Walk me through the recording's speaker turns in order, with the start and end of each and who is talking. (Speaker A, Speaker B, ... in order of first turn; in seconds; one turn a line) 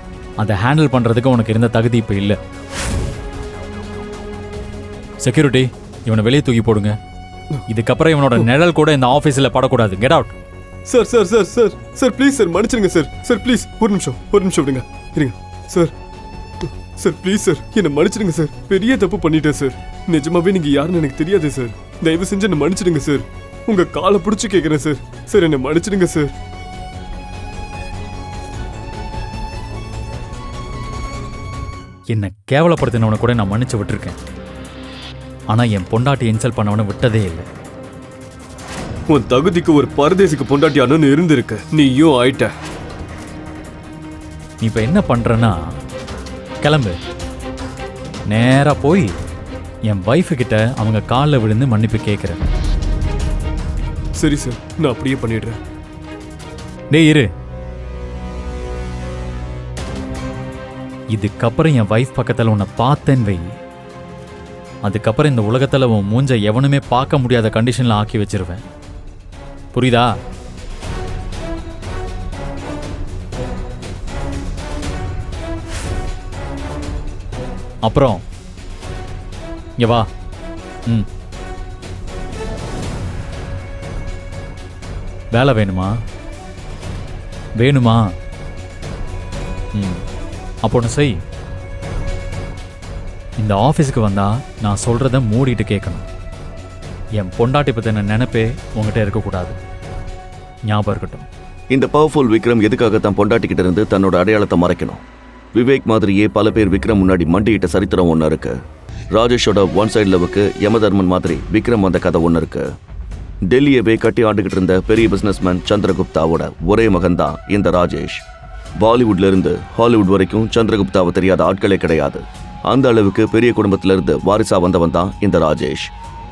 Speaker A: 0.4-2.4
Speaker A: 5.2-7.0
Speaker A: 7.7-10.3
Speaker B: 10.9-15.9
Speaker B: 16.6-26.3
Speaker A: 32.1-34.2
Speaker A: 35.5-37.5
Speaker B: 39.1-42.5
Speaker A: 44.6-45.5
Speaker A: 46.6-47.0
Speaker A: 48.3-49.1
Speaker A: 49.9-52.4
Speaker B: 54.1-55.6
Speaker A: 56.9-57.3
Speaker A: 61.1-63.5
Speaker A: 64.8-68.6
Speaker A: 69.7-70.1
Speaker A: 77.8-78.2
Speaker A: 79.8-80.1
Speaker A: 85.3-85.9
Speaker A: 87.6-88.0
Speaker A: 90.7-91.1
Speaker A: 93.4-96.1
Speaker A: 97.2-99.6
Speaker A: 100.7-101.3
Speaker C: 101.7-105.0
Speaker C: 105.5-108.5
Speaker C: 109.1-112.6
Speaker C: 113.5-118.2
Speaker C: 118.8-125.9